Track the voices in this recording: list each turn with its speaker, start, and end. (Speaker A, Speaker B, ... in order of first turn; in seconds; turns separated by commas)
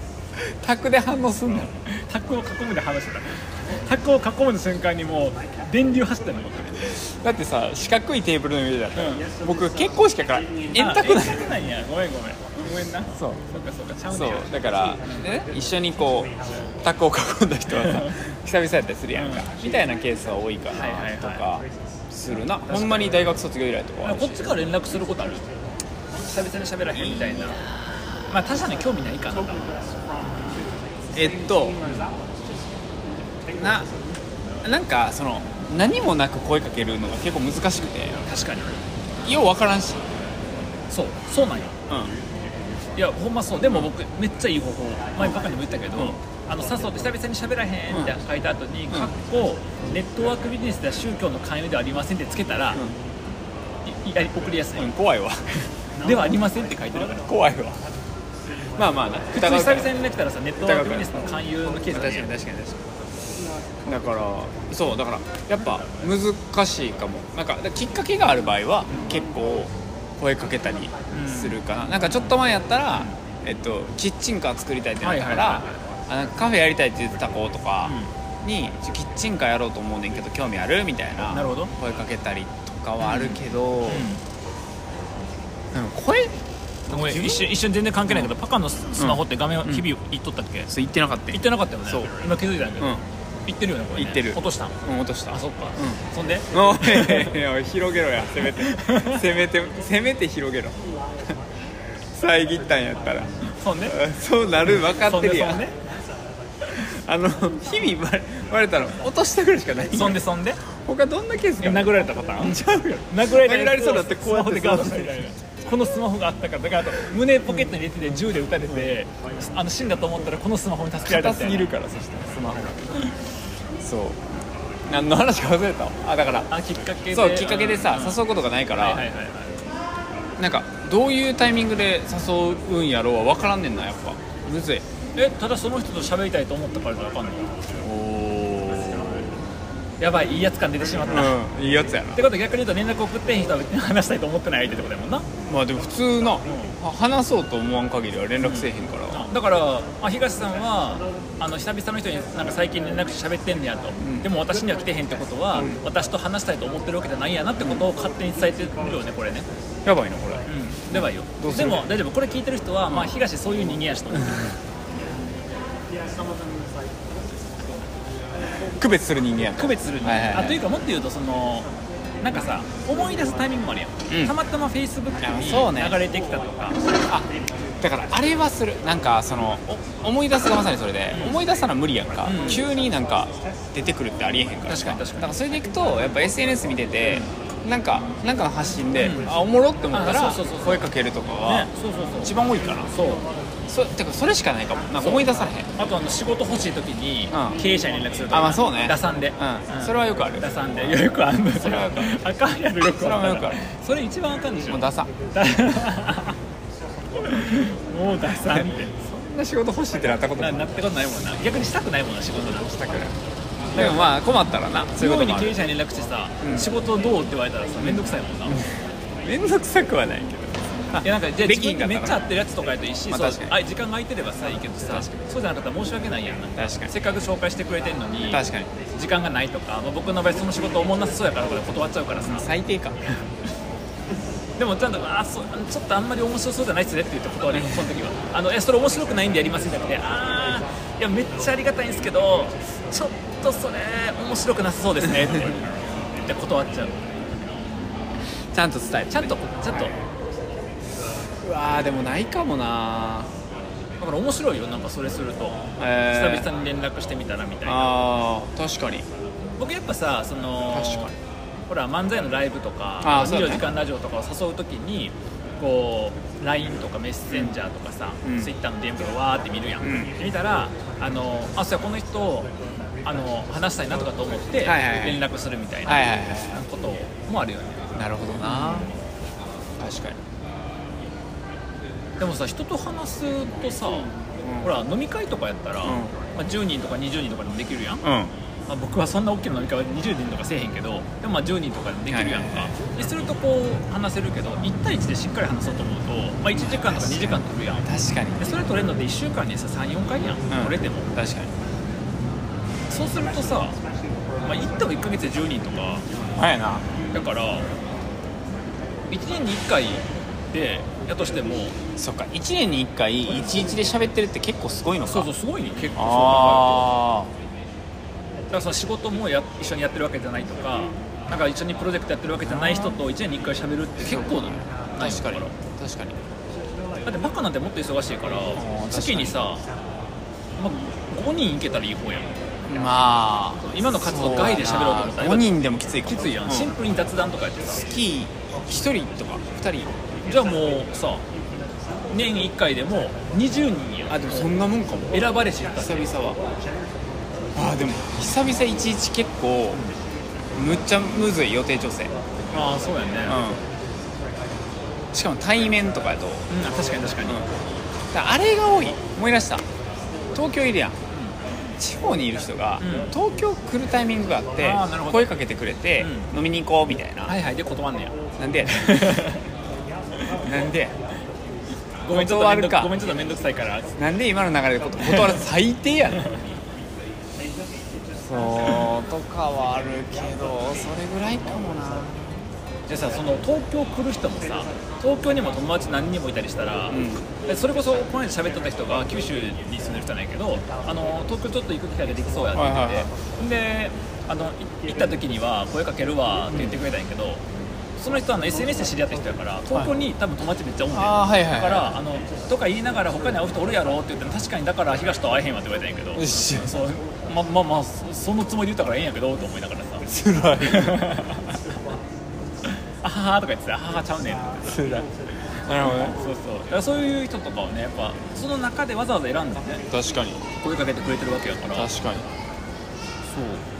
Speaker A: 0.4-1.7, Speaker B: 1.9-7.0, Speaker A: 7.0-11.6, Speaker B: 8.9-9.3, Speaker B: 10.7-15.3, Speaker A: 14.1-24.5, Speaker B: 17.8-18.2, Speaker B: 19.1-19.5, Speaker B: 20.7-21.4, Speaker B: 22.6-23.3, Speaker B: 24.0-25.5, Speaker B: 26.1-27.6, Speaker A: 26.9-28.3, Speaker B: 28.3-29.8, Speaker A: 31.1-31.8, Speaker B: 31.8-32.1, Speaker A: 33.5-33.9, Speaker A: 34.6-38.2, Speaker B: 38.3-38.8, Speaker A: 39.2-40.0, Speaker B: 40.9-41.8, Speaker A: 41.9-42.1, Speaker B: 43.0-52.8, Speaker A: 43.6-43.9, Speaker A: 45.2-46.2, Speaker B: 53.8-54.9, Speaker A: 54.8-55.7, Speaker B: 56.0-57.3, Speaker A: 57.2-57.8, Speaker A: 58.7-59.9, Speaker B: 59.3-62.3, Speaker A: 60.6-61.2, Speaker A: 61.9-62.9, Speaker A: 63.8-84.1, Speaker B: 71.1-72.3, Speaker B: 75.0-75.6, Speaker B: 77.8-78.1, Speaker B: 81.3-81.7, Speaker B: 83.0-84.2, Speaker A: 85.7-86.4, Speaker A: 86.9-87.5, Speaker B: 86.9-90.7, Speaker A: 89.0-89.8, Speaker A: 90.7-92.1, Speaker B: 91.3-97.3, Speaker A: 94.0-96.0, Speaker A: 96.5-100.8, Speaker B: 98.6-99.2, Speaker A: 102.1-105.7, Speaker B: 103.6-104.0, Speaker B: 104.7-105.7, Speaker A: 106.7-115.3, Speaker B: 109.9-110.6, Speaker B: 111.6-121.7, Speaker A: 117.5-117.9, Speaker A: 121.0-123.1, Speaker A: 123.8-124.2, Speaker A: 124.9-126.5, Speaker B: 126.5-128.2, Speaker A: 127.1-129.0, Speaker B: 128.8-129.6, Speaker A: 130.4-134.8, Speaker B: 135.1-137.5, Speaker A: 137.8-139.3, Speaker B: 140.0-141.4, Speaker A: 141.1-142.2, Speaker B: 142.1-145.3, Speaker A: 145.5-149.3, Speaker B: 146.4-146.7, Speaker B: 148.4-159.5, Speaker A: 154.0-154.3, Speaker A: 155.5-155.8, Speaker A: 157.6-157.8, Speaker A: 159.8-161.9, Speaker B: 160.5-164.5, Speaker A: 162.9-163.1, Speaker A: 168.7-170.6, Speaker B: 169.6-171.7, Speaker B: 172.2-176.8, Speaker A: 174.1-174.3, Speaker A: 175.2-176.0, Speaker A: 177.8-192.9, Speaker B: 181.1-181.4, Speaker B: 182.2-182.6, Speaker B: 184.7-185.3, Speaker B: 189.0-189.3, Speaker B: 189.9-190.8, Speaker B: 191.4-192.3, Speaker B: 192.9-193.2, Speaker A: 193.7-195.7, Speaker B: 195.0-206.3, Speaker A: 197.3-197.6, Speaker A: 198.3-200.5, Speaker A: 201.5-202.2, Speaker A: 202.8-203.6, Speaker A: 204.6-205.1, Speaker B: 207.2-208.9, Speaker A: 208.5-210.7, Speaker B: 210.4-213.0, Speaker A: 212.3-213.1, Speaker B: 213.7-214.1, Speaker A: 213.7-215.6, Speaker B: 215.0-218.6, Speaker A: 216.4-216.7, Speaker A: 217.8-222.2, Speaker B: 221.0-232.5, Speaker A: 223.1-223.5, Speaker A: 226.6-226.9, Speaker A: 228.3-228.7, Speaker A: 232.2-233.2, Speaker B: 234.6-247.0, Speaker A: 248.5-249.9, Speaker B: 249.1-249.9, Speaker A: 251.4-253.3, Speaker B: 254.0-257.9, Speaker A: 255.8-256.5, Speaker A: 257.6-259.1, Speaker B: 259.6-261.1, Speaker A: 260.7-261.1, Speaker B: 261.7-278.9, Speaker A: 263.0-263.7, Speaker A: 268.2-268.5, Speaker A: 269.8-270.1, Speaker A: 274.6-275.2, Speaker A: 275.9-276.6, Speaker A: 277.9-278.9, Speaker A: 279.8-280.2, Speaker B: 282.2-288.0, Speaker A: 284.3-284.8, Speaker A: 285.8-286.1, Speaker A: 288.0-288.4, Speaker B: 288.7-301.1, Speaker A: 292.1-292.8, Speaker A: 296.5-298.5, Speaker A: 300.5-301.5, Speaker B: 302.9-303.8, Speaker B: 304.4-306.0, Speaker A: 306.4-306.9, Speaker B: 307.1-307.7, Speaker B: 309.1-311.8, Speaker A: 312.0-315.3, Speaker B: 315.0-316.9, Speaker A: 315.9-317.3, Speaker B: 318.5-325.5, Speaker A: 322.4-323.0, Speaker A: 324.0-326.2, Speaker B: 327.0-329.6, Speaker A: 328.6-329.5, Speaker B: 330.6-332.3, Speaker A: 332.7-336.7, Speaker B: 333.5-337.8, Speaker A: 337.6-339.9, Speaker B: 340.2-341.2, Speaker B: 342.1-344.5, Speaker A: 344.1-346.4, Speaker B: 345.1-346.1, Speaker A: 347.5-349.8, Speaker A: 350.5-352.1, Speaker B: 352.5-353.4, Speaker A: 353.2-353.6, Speaker A: 355.1-356.5, Speaker B: 356.5-357.5, Speaker A: 357.2-357.5, Speaker A: 358.1-359.7, Speaker A: 360.3-361.0, Speaker A: 361.8-367.3, Speaker B: 362.8-363.1, Speaker B: 364.6-365.4, Speaker B: 366.0-366.3, Speaker B: 367.3-369.4, Speaker A: 368.4-369.3, Speaker A: 370.4-371.0, Speaker B: 372.0-373.9, Speaker A: 372.1-372.9, Speaker A: 373.9-376.4, Speaker B: 375.0-375.4, Speaker A: 378.2-382.4, Speaker B: 382.9-397.4, Speaker A: 386.9-387.3, Speaker A: 392.5-393.1, Speaker A: 396.5-396.8, Speaker B: 398.0-410.1, Speaker A: 400.9-401.9, Speaker A: 406.1-406.8, Speaker A: 410.1-411.1, Speaker B: 410.6-411.6, Speaker B: 413.0-415.0, Speaker A: 414.7-415.1, Speaker A: 415.6-416.1, Speaker B: 415.8-419.8, Speaker A: 419.9-420.4, Speaker B: 420.6-421.9, Speaker A: 421.7-422.3, Speaker B: 423.3-423.6